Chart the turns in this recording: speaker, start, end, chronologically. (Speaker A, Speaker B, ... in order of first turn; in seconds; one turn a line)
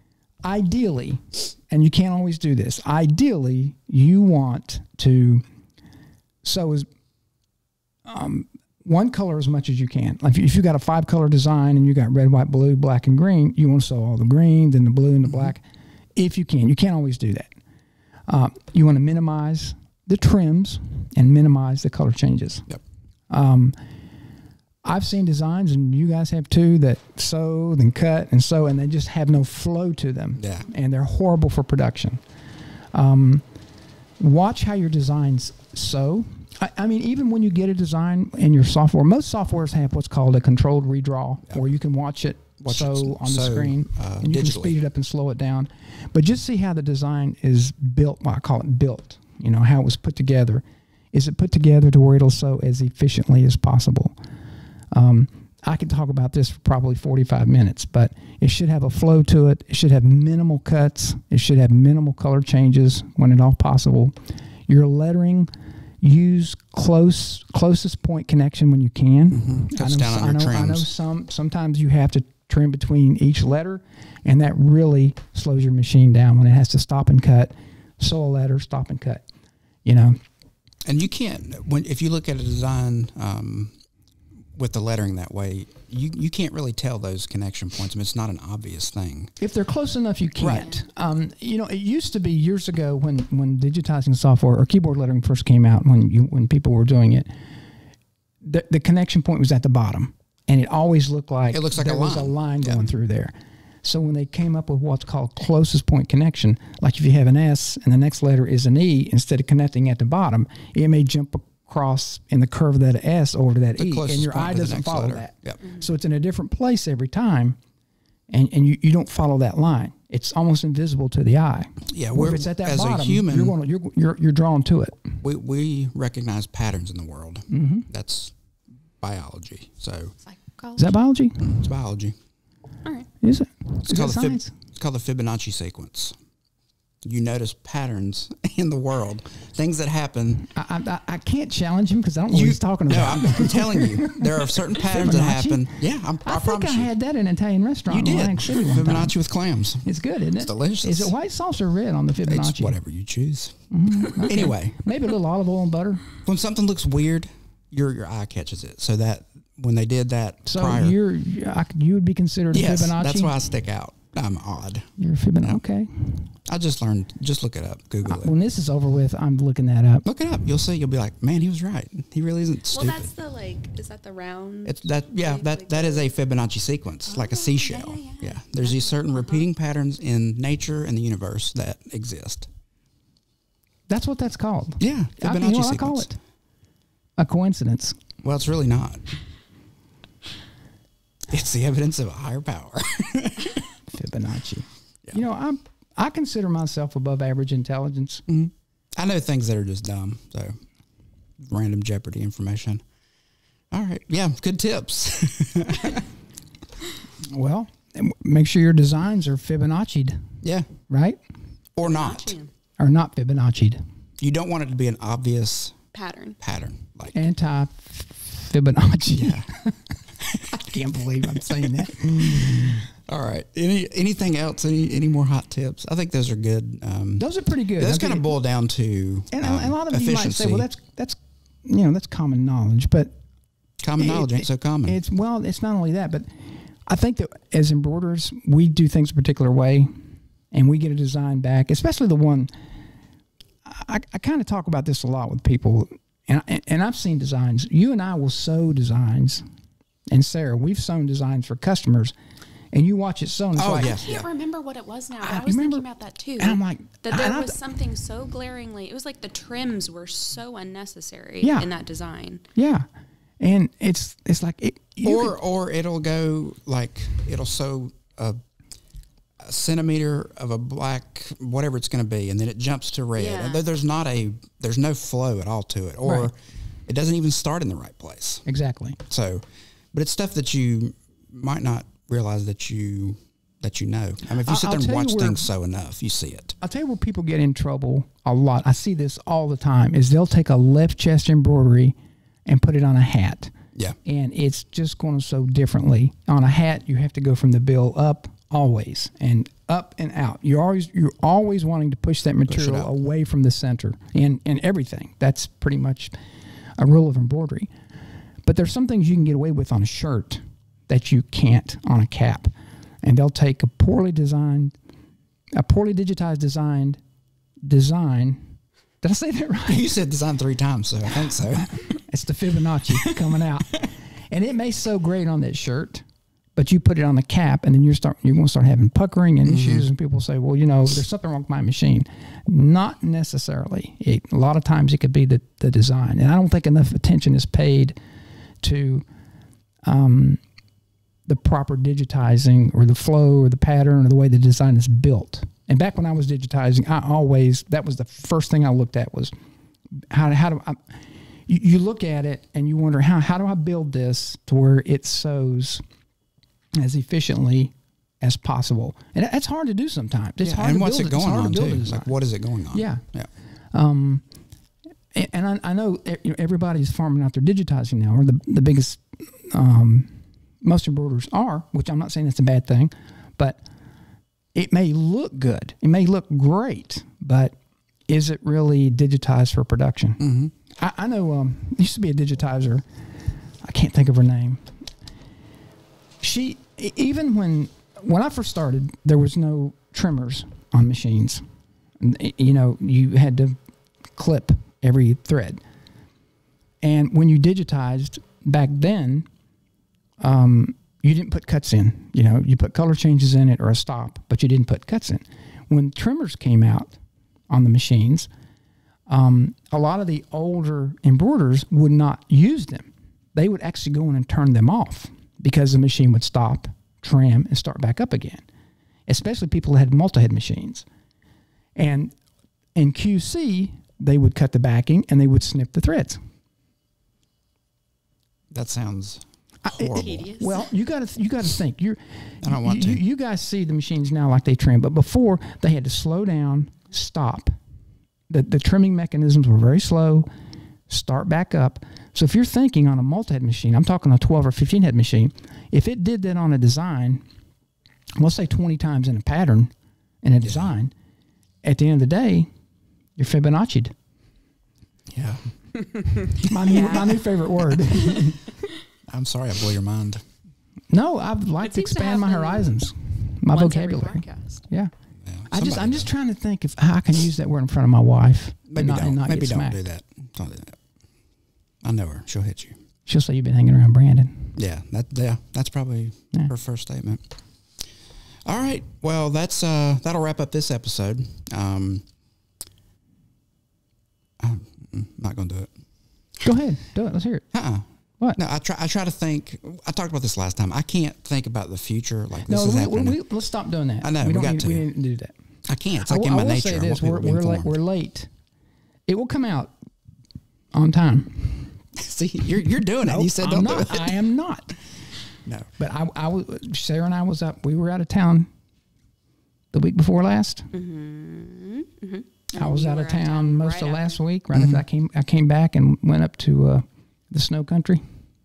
Speaker A: 0.4-5.4
Speaker A: 6.4-6.9
Speaker A: 8.1-15.6
Speaker A: 16.2-17.5
Speaker A: 18.3-22.7
Speaker A: 23.3-23.8
Speaker A: 24.8-32.2
Speaker B: 30.4-30.7
Speaker A: 32.9-33.4
Speaker A: 34.2-54.2
Speaker B: 42.6-44.8
Speaker A: 54.9-64.2
Speaker A: 64.7-79.2
Speaker B: 69.3-70.9
Speaker A: 79.8-80.2
Speaker B: 80.8-83.8
Speaker B: 84.5-89.4
Speaker A: 89.4-97.3
Speaker B: 90.4-90.7
Speaker A: 98.4-117.6
Speaker B: 101.5-102.8
Speaker B: 113.8-115.6
Speaker A: 118.3-125.2
Speaker B: 121.9-123.6
Speaker B: 125.2-128.3
Speaker A: 127.5-127.9
Speaker B: 129.0-130.2
Speaker C: 130.3-131.0
Speaker A: 130.8-131.6
Speaker B: 131.4-132.2
Speaker A: 133.2-134.5
Speaker B: 133.8-136.2
Speaker B: 137.0-140.5
Speaker A: 140.5-149.1
Speaker B: 142.3-146.9
Speaker B: 147.9-149.9
Speaker A: 149.8-152.8
Speaker B: 150.4-151.1
Speaker B: 152.3-154.8
Speaker A: 153.7-156.1
Speaker B: 156.2-161.0
Speaker A: 160.5-163.4
Speaker B: 162.5-164.9
Speaker A: 165.0-166.3
Speaker B: 166.5-168.3
Speaker A: 168.1-170.1
Speaker B: 170.1-173.1
Speaker C: 172.7-176.1
Speaker B: 174.7-182.5
Speaker C: 177.1-179.5
Speaker A: 183.9-186.2
Speaker B: 184.8-186.1
Speaker A: 187.2-188.0
Speaker B: 188.2-189.2
Speaker B: 191.3-193.7
Speaker A: 193.9-198.2
Speaker B: 198.3-200.6
Speaker B: 201.4-202.8
Speaker B: 203.7-206.1
Speaker A: 207.3-210.3
Speaker B: 210.4-210.7
Speaker A: 210.9-211.2
Speaker B: 211.8-212.4
Speaker C: 211.8-212.5
Speaker A: 212.8-213.8
Speaker B: 214.2-215.8
Speaker C: 215.9-216.4
Speaker B: 216.4-217.3
Speaker A: 217.1-219.8
Speaker B: 219.1-219.5
Speaker B: 220.2-220.6
Speaker A: 220.3-222.9
Speaker B: 221.3-230.7
Speaker A: 227.2-228.3
Speaker A: 229.3-233.2
Speaker B: 233.8-235.0
Speaker A: 234.0-239.9
Speaker A: 240.5-242.5
Speaker A: 243.7-249.4
Speaker A: 250.1-252.2
Speaker A: 252.7-254.0
Speaker B: 253.6-254.3
Speaker C: 253.8-262.4
Speaker A: 255.2-255.8
Speaker A: 256.4-257.6
Speaker A: 261.4-261.7
Speaker A: 262.6-262.9
Speaker A: 263.4-265.4
Speaker B: 265.0-268.4
Speaker B: 269.4-276.3
Speaker C: 273.2-273.6
Speaker A: 276.0-276.3
Speaker B: 276.9-278.4
Speaker A: 278.5-279.0
Speaker B: 279.1-286.6
Speaker A: 284.4-285.5
Speaker A: 286.6-293.5
Speaker A: 294.0-306.2
Speaker B: 302.5-302.9
Speaker A: 306.8-307.7
Speaker A: 308.4-314.8
Speaker A: 315.6-317.0
Speaker A: 317.6-319.9
Speaker B: 319.7-321.8
Speaker A: 321.2-326.0
Speaker A: 326.6-338.0
Speaker B: 329.5-329.9
Speaker A: 338.6-339.1
Speaker A: 339.8-340.4
Speaker A: 341.3-349.3
Speaker A: 350.1-355.8
Speaker A: 356.8-362.1
Speaker B: 360.4-363.3
Speaker A: 362.7-363.0
Speaker A: 363.7-364.2
Speaker A: 365.1-373.6
Speaker A: 374.5-377.6
Speaker A: 378.1-382.9
Speaker B: 380.2-380.5
Speaker A: 383.6-384.7
Speaker A: 386.2-391.4
Speaker A: 392.0-393.6
Speaker A: 394.2-395.6
Speaker A: 396.8-399.3
Speaker A: 400.2-407.0
Speaker A: 407.5-408.3
Speaker A: 409.1-418.4
Speaker A: 419.1-420.9
Speaker A: 421.8-422.1
Speaker A: 422.8-426.2
Speaker B: 428.5-430.2
Speaker A: 429.6-437.5
Speaker C: 429.9-430.7
Speaker B: 432.4-433.0
Speaker A: 438.3-440.3
Speaker A: 440.9-447.2
Speaker A: 448.2-450.9
Speaker B: 450.4-450.7
Speaker A: 451.6-452.5
Speaker A: 453.2-453.9
Speaker B: 455.1-455.4
Speaker A: 456.4-458.5
Speaker B: 456.4-456.9
Speaker C: 456.7-457.1
Speaker B: 459.1-460.2
Speaker A: 460.9-464.9
Speaker C: 461.6-462.8
Speaker C: 463.5-464.6
Speaker B: 465.2-466.1
Speaker A: 465.5-469.8
Speaker B: 468.7-470.8
Speaker B: 471.8-472.8
Speaker A: 473.1-474.6
Speaker B: 474.6-477.2
Speaker B: 478.4-482.1
Speaker B: 484.4-485.7
Speaker A: 486.4-487.5
Speaker B: 487.5-487.9
Speaker B: 488.4-493.2
Speaker A: 492.5-495.3
Speaker B: 494.0-494.9
Speaker B: 495.7-497.8
Speaker A: 495.9-498.3
Speaker A: 499.1-499.8
Speaker A: 500.7-501.8
Speaker B: 501.9-504.2
Speaker A: 503.0-504.8
Speaker A: 505.8-508.5
Speaker A: 509.7-510.7
Speaker C: 510.7-514.2
Speaker A: 512.6-518.0
Speaker B: 514.5-514.8